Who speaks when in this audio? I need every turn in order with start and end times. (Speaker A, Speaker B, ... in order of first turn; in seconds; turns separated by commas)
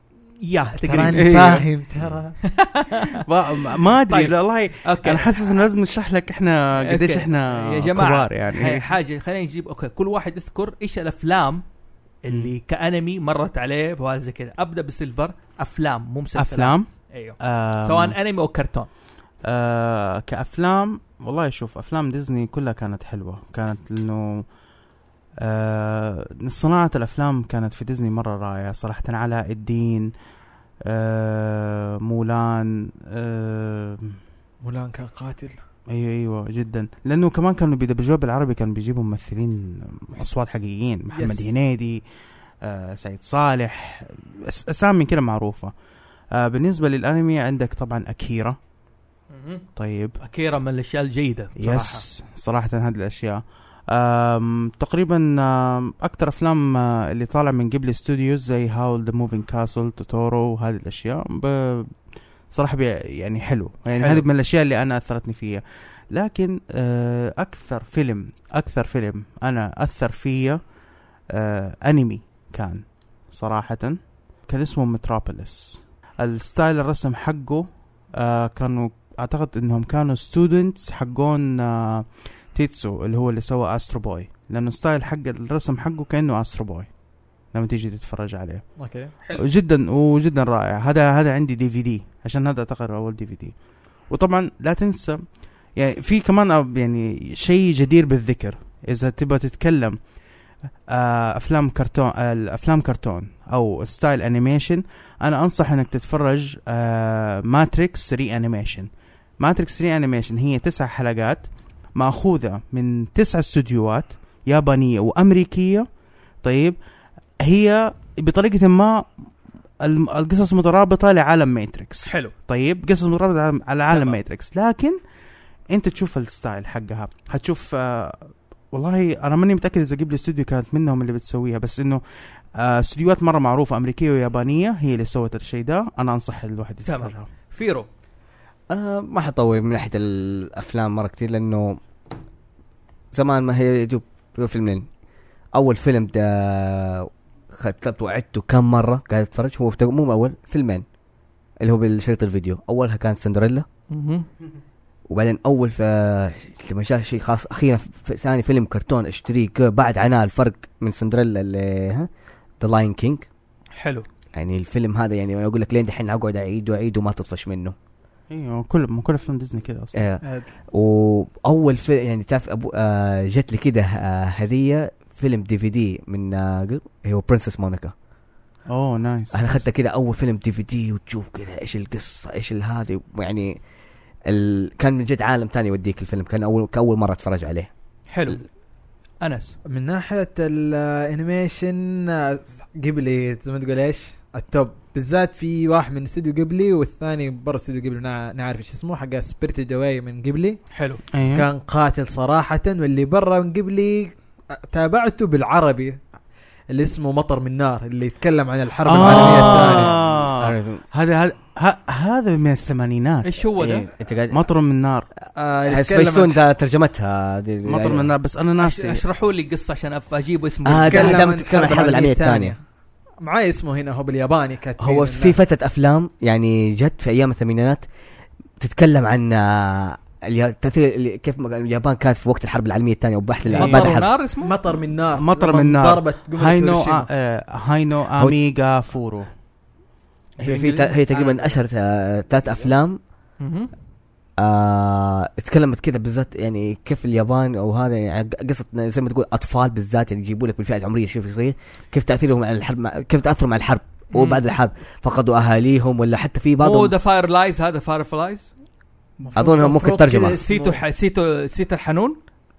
Speaker A: 0.4-1.3, Speaker B: 0.9-2.4, Speaker C: 1.1-1.6, Speaker A: 2.4-3.2, Speaker C: 3.2-8.9, Speaker A: 4.1-4.3, Speaker A: 4.8-5.6, Speaker A: 6.9-11.6, Speaker A: 12.2-18.9, Speaker C: 16.4-16.9, Speaker C: 17.4-18.1, Speaker C: 19.4-24.4, Speaker C: 25.4-30.1, Speaker C: 30.9-34.2, Speaker B: 34.6-35.5, Speaker C: 35.9-42.0, Speaker B: 41.1-41.5, Speaker C: 42.6-45.7, Speaker C: 46.3-48.6, Speaker A: 49.3-49.6, Speaker C: 49.8-50.2, Speaker A: 50.2-52.0, Speaker C: 51.6-61.9, Speaker C: 62.5-65.6, Speaker A: 63.9-64.2, Speaker C: 66.1-70.6, Speaker C: 71.3-86.9, Speaker C: 87.5-88.7, Speaker B: 88.8-89.1, Speaker C: 89.4-93.5, Speaker C: 94.1-95.2, Speaker C: 95.8-100.0, Speaker C: 100.9-108.9, Speaker C: 109.4-111.4, Speaker C: 112.0-115.9, Speaker C: 116.4-116.8, Speaker C: 117.4-119.0, Speaker C: 119.8-125.0, Speaker A: 122.0-122.3, Speaker A: 123.9-124.2, Speaker C: 125.7-132.0, Speaker C: 132.6-137.3, Speaker A: 136.8-137.9, Speaker D: 138.7-141.8, Speaker D: 143.1-144.9, Speaker D: 145.5-150.8, Speaker D: 151.6-153.7, Speaker A: 153.9-154.3, Speaker D: 155.1-162.1, Speaker D: 162.6-163.2, Speaker A: 163.8-164.0, Speaker D: 164.3-167.7, Speaker C: 168.3-170.0, Speaker D: 169.9-177.9, Speaker B: 170.2-170.5, Speaker C: 178.7-179.6, Speaker D: 179.3-183.6, Speaker D: 184.3-187.7, Speaker A: 188.1-188.4, Speaker A: 189.2-189.6, Speaker B: 189.7-200.6, Speaker A: 200.7-201.0, Speaker C: 201.1-201.5, Speaker B: 201.3-206.0, Speaker B: 206.7-209.9, Speaker C: 208.8-213.3, Speaker D: 209.0-210.8, Speaker A: 213.2-213.9, Speaker D: 213.6-214.4, Speaker C: 214.3-215.1, Speaker B: 215.3-216.4, Speaker D: 215.7-218.1, Speaker C: 217.6-219.0, Speaker A: 218.6-221.3, Speaker D: 220.7-222.5, Speaker B: 220.9-222.6, Speaker B: 223.2-225.4, Speaker D: 224.8-227.8, Speaker D: 228.6-234.1, Speaker A: 233.5-234.5, Speaker C: 233.5-233.9, Speaker B: 234.4-237.1, Speaker C: 235.1-239.3, Speaker D: 240.4-243.0, Speaker A: 240.4-240.9, Speaker B: 241.1-241.4, Speaker A: 243.4-243.7, Speaker D: 244.4-256.9, Speaker A: 254.1-254.4, Speaker A: 256.6-258.5, Speaker B: 259.2-260.8, Speaker D: 259.4-260.4, Speaker A: 260.4-262.2